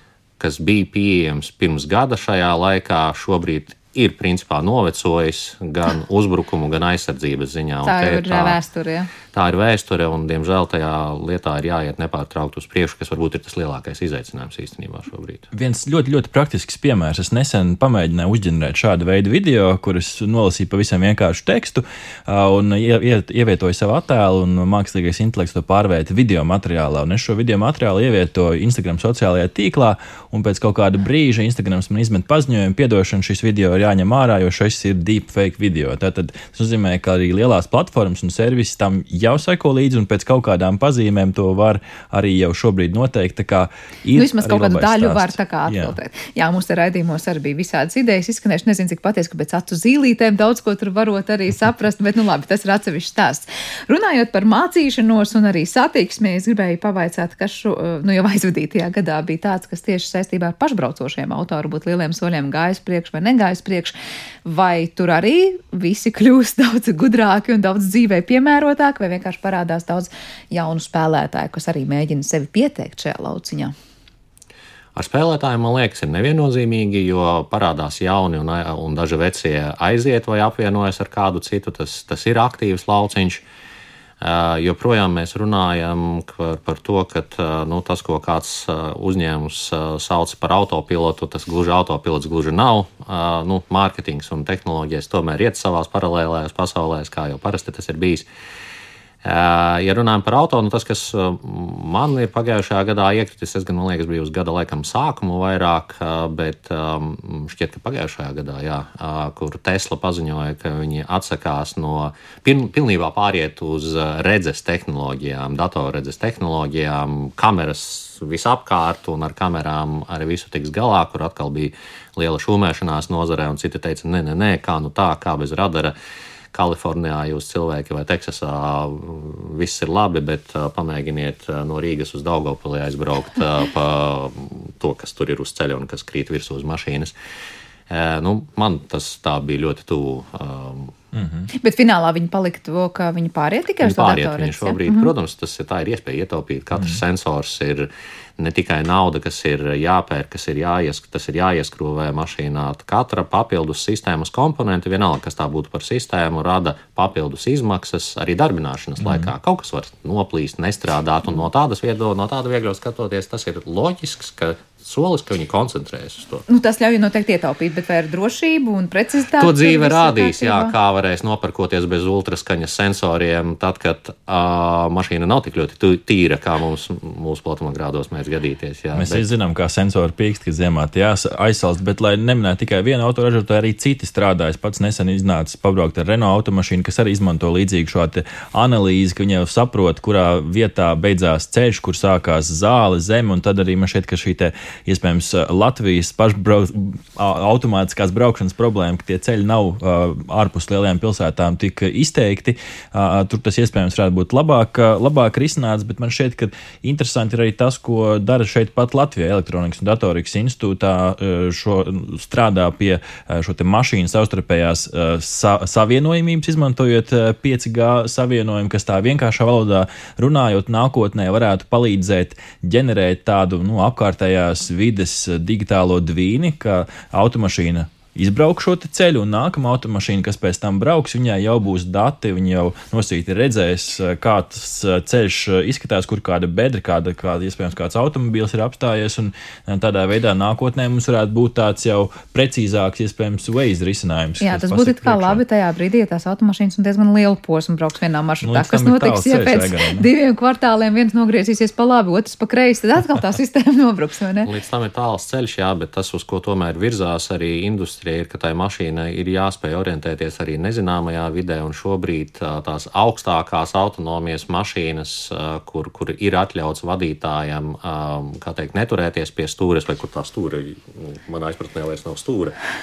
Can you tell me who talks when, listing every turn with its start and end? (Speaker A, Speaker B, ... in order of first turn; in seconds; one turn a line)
Speaker A: 0.4-8.6
Speaker B: 7.8-9.1
Speaker A: 9.3-15.5
Speaker C: 15.5-46.0
Speaker B: 44.1-63.9
Speaker B: 64.5-73.7
Speaker A: 75.0-83.4
Speaker A: 84.2-98.3
Speaker A: 99.2-126.0
Speaker A: 126.5-137.1
Speaker A: 137.9-140.9
Speaker C: 141.1-141.5
Speaker B: 141.5-145.1
Speaker A: 143.8-166.4
Speaker C: 159.0-159.3
Speaker B: 166.5-170.7
Speaker A: 169.4-179.2
Speaker C: 178.9-245.4
Speaker B: 244.4-254.5
Speaker C: 248.4-250.1
Speaker A: 254.4-272.6